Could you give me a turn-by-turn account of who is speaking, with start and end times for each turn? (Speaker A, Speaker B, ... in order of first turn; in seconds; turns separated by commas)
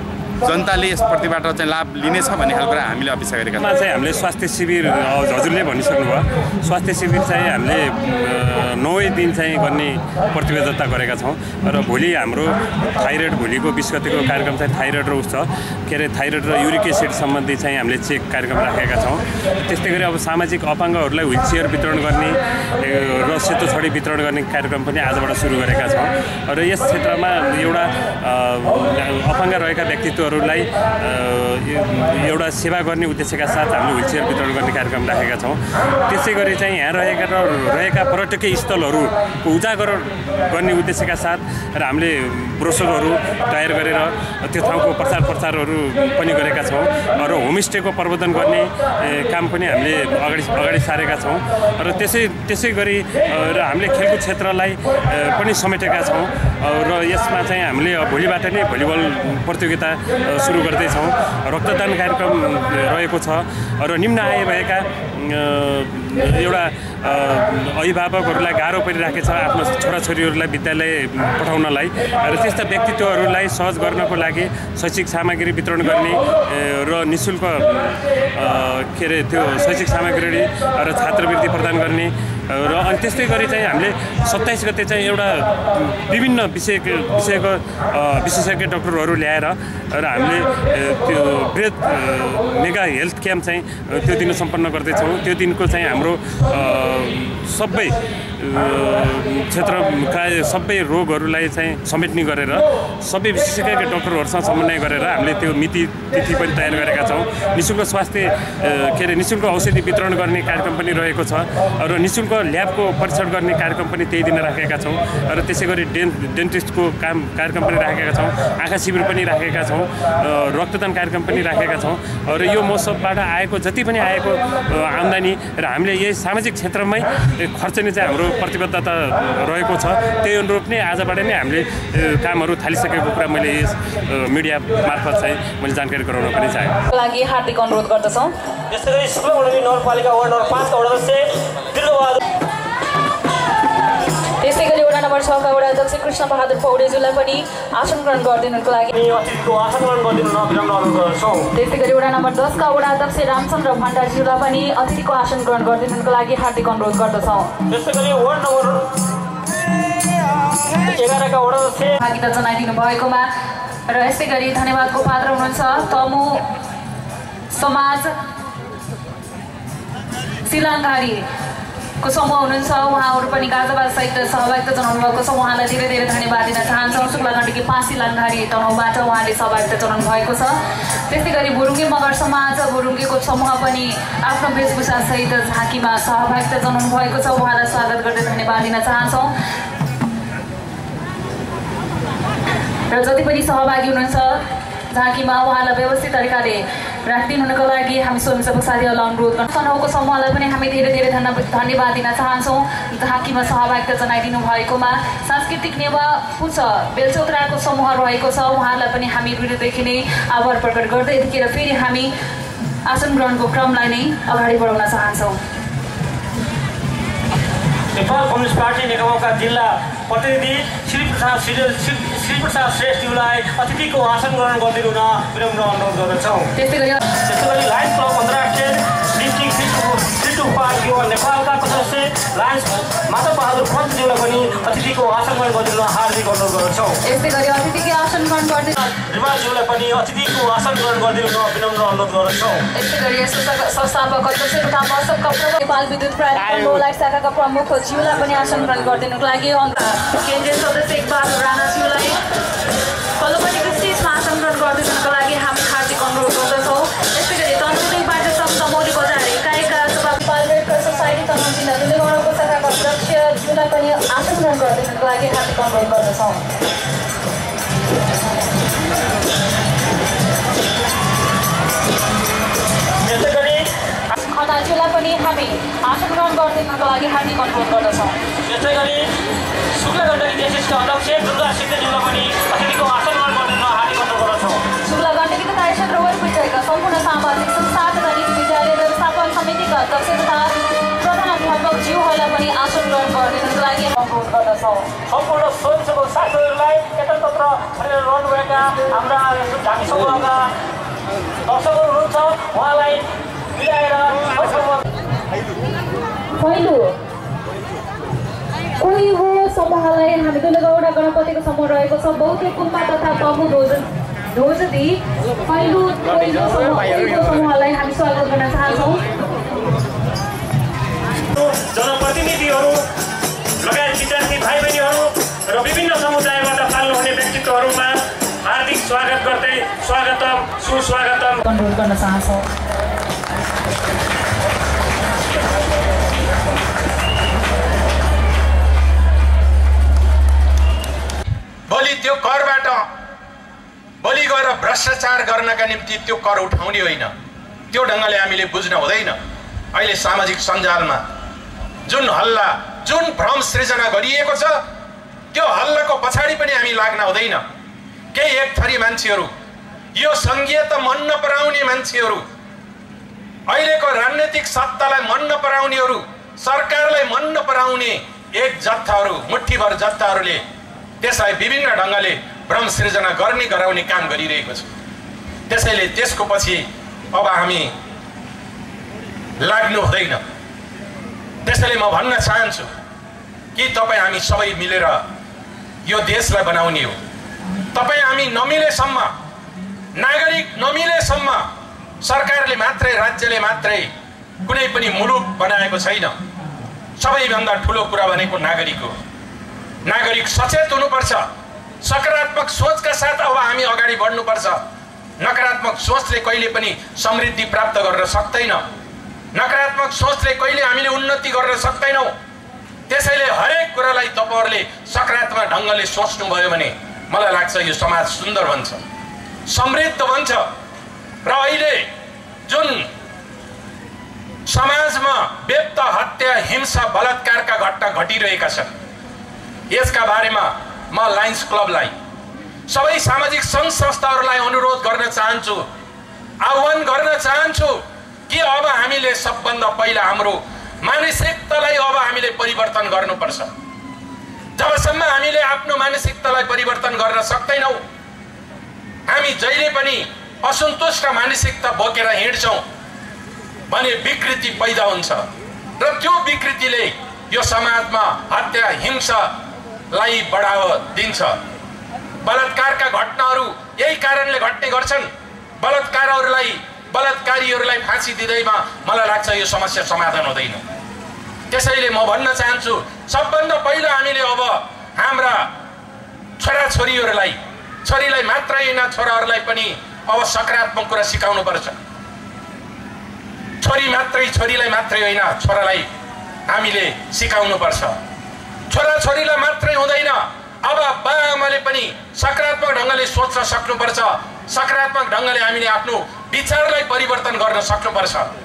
Speaker A: 0.4-3.7, Speaker B: 3.6-136.8, Speaker C: 136.9-138.3, Speaker D: 138.7-142.2, Speaker C: 144.4-148.9, Speaker D: 148.9-151.5, Speaker C: 151.5-157.5, Speaker D: 157.7-158.9, Speaker D: 160.9-162.0, Speaker C: 162.0-163.3, Speaker C: 163.9-166.4, Speaker C: 167.5-168.1, Speaker C: 170.4-171.2, Speaker C: 172.0-180.6, Speaker C: 181.1-189.3, Speaker C: 192.9-212.1, Speaker C: 212.8-215.4, Speaker D: 217.9-226.5, Speaker C: 226.5-227.0, Speaker D: 227.2-237.0, Speaker C: 237.0-238.8, Speaker D: 238.8-242.6, Speaker C: 242.7-252.2, Speaker C: 253.2-266.4, Speaker D: 273.0-273.6, Speaker C: 274.2-278.2, Speaker D: 278.5-279.1, Speaker D: 279.7-284.6, Speaker C: 284.8-294.9, Speaker D: 295.1-300.5, Speaker D: 301.4-303.0, Speaker D: 303.5-304.8, Speaker C: 306.4-306.9, Speaker C: 308.8-319.0, Speaker B: 321.3-322.8, Speaker B: 323.6-331.4, Speaker C: 331.4-332.4, Speaker E: 341.7-342.9, Speaker E: 344.0-347.1, Speaker E: 347.7-349.1, Speaker E: 349.7-351.0, Speaker E: 351.9-354.6, Speaker E: 355.3-357.4, Speaker E: 358.1-359.3, Speaker E: 359.9-362.2, Speaker E: 363.5-370.4, Speaker E: 371.0-374.7, Speaker E: 375.5-377.7, Speaker E: 379.4-380.2, Speaker E: 381.4-382.7, Speaker E: 383.5-385.0, Speaker E: 385.9-386.9, Speaker E: 387.7-389.1, Speaker E: 390.0-391.4, Speaker E: 392.0-393.9, Speaker E: 394.4-396.1, Speaker E: 397.0-398.9, Speaker E: 399.8-401.2, Speaker E: 401.8-404.6, Speaker E: 405.2-408.6, Speaker E: 409.3-412.1, Speaker E: 412.9-418.8, Speaker E: 419.5-420.5, Speaker E: 421.2-421.9, Speaker E: 422.5-422.9, Speaker E: 424.5-428.7, Speaker E: 429.7-431.9, Speaker E: 432.7-435.7, Speaker E: 436.4-443.5, Speaker E: 444.6-447.8, Speaker E: 449.1-452.6, Speaker E: 453.7-455.2, Speaker E: 455.8-459.3, Speaker E: 459.9-461.4, Speaker E: 462.2-465.1, Speaker E: 465.6-470.6, Speaker E: 471.5-475.5, Speaker E: 476.4-481.7, Speaker E: 483.6-485.9, Speaker E: 486.5-488.0, Speaker E: 488.7-498.3